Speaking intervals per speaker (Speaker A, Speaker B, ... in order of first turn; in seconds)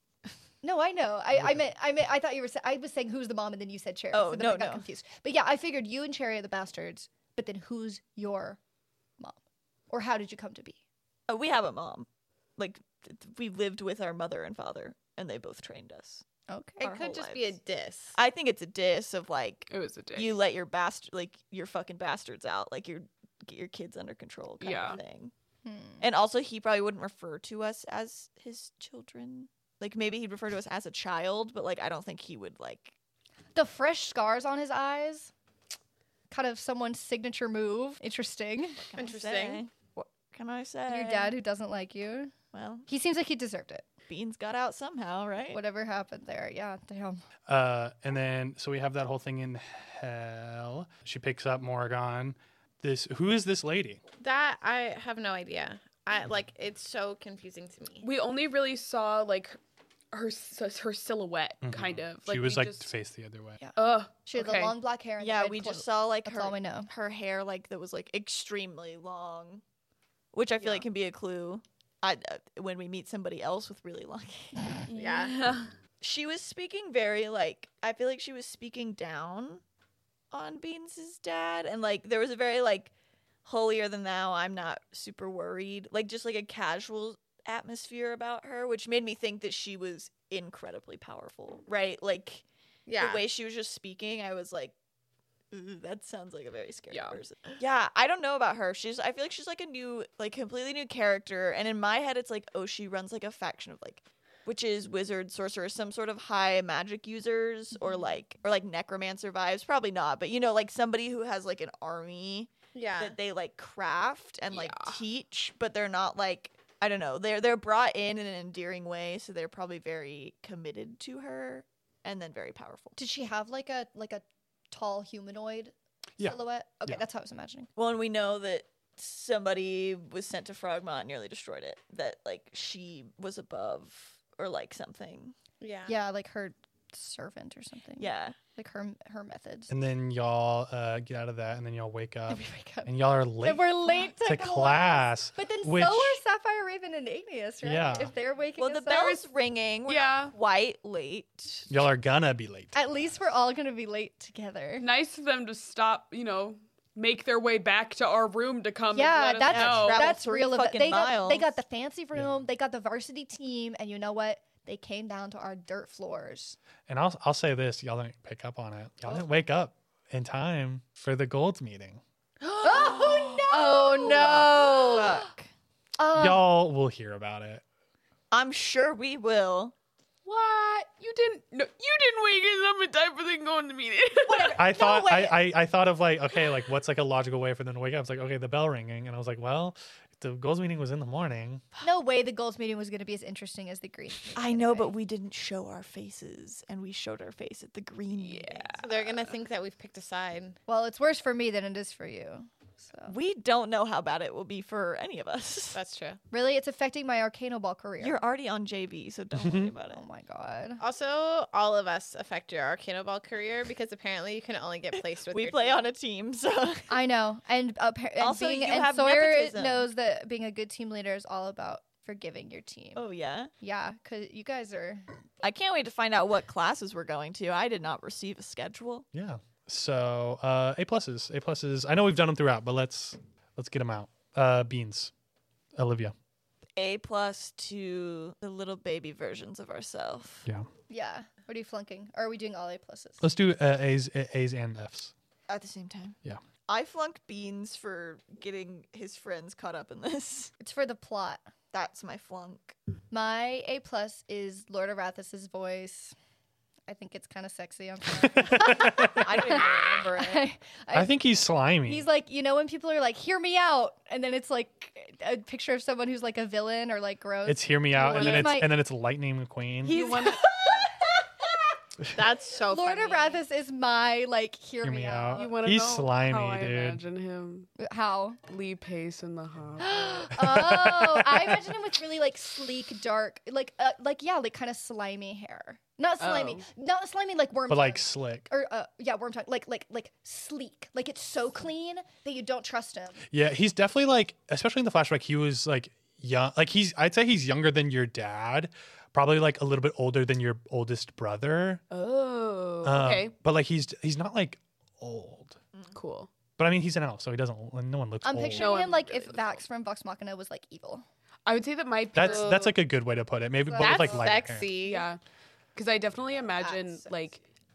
Speaker A: 0.6-8.6, 9.9-10.8, 16.5-16.8, 25.6-26.0, 33.5-35.3, 36.3-38.8, 40.9-42.3, 42.9-43.9, 45.5-47.2, 63.6-66.9, 123.0-127.7, 135.9-139.7, 142.3-149.2, 152.7-154.9, 158.9-166.6, 172.6-175.3, 176.0-176.4, 184.2-185.4, 191.8-194.9, 200.7-203.2, 206.3-208.2, 209.9-210.8, 216.9-223.0, 223.6-225.1, 240.9-243.2, 250.6-251.5, 253.1-256.1, 256.9-261.2, 261.8-268.7, 269.9-270.9, 272.6-275.5, 277.8-278.4, 279.8-293.2, 308.2-311.1, 313.7-314.3, 316.6-317.1
Speaker B: 1.4-1.7, 47.5-54.0, 61.6-63.6, 126.2-127.0, 139.7-146.2, 147.6-148.1, 151.7-152.7, 162.2-162.4, 166.9-172.0, 176.1-177.6, 184.6-191.7, 209.3-209.7, 229.1-235.1, 235.8-236.2, 243.2-245.1, 258.2-259.3, 260.9-262.1, 267.4-270.0, 274.8-277.0, 280.4-281.7, 287.7-288.5, 293.3-301.8, 302.8-305.6, 306.6-308.7, 312.1-314.7
Speaker C: 4.1-4.9, 11.3-16.2, 16.8-17.6, 18.2-25.3, 26.0-33.0, 38.8-41.3, 42.5-42.9, 44.1-45.6, 65.2-69.6, 70.3-74.9, 76.0-79.6, 80.3-82.9, 83.5-92.4, 93.0-94.8, 95.5-123.0, 127.8-135.3, 138.0-138.4, 148.6-151.7, 159.5-161.5, 173.5-175.5, 178.3-179.7, 194.3-198.8, 203.1-205.8, 208.0-210.0, 215.3-217.0, 218.2-219.9, 223.0-223.5, 225.4-229.1, 236.8-240.5, 245.5-250.5, 251.7-252.8, 259.1-260.5, 305.7-306.0
Speaker D: 16.8-18.2, 39.0-39.6, 54.2-58.1, 74.9-75.4, 92.9-93.2, 112.7-113.2, 135.6-136.0, 198.8-200.6, 205.7-206.2, 210.8-215.9, 272.1-273.4, 312.2-312.7, 313.8-315.1
Speaker E: 19.7-20.4, 24.6-25.0, 58.0-59.6, 60.1-62.9, 63.8-64.8, 70.6-70.8, 74.9-75.7, 96.9-97.6, 114.5-115.0, 149.9-150.3, 154.8-160.2, 172.5-174.5, 180.2-184.6, 198.2-199.2, 268.0-268.6, 269.8-270.6, 275.4-277.7, 278.5-280.4, 286.2-286.7, 301.9-303.3, 305.9-306.3, 308.5-309.6, 311.5-312.7, 314.8-315.2, 315.8-317.4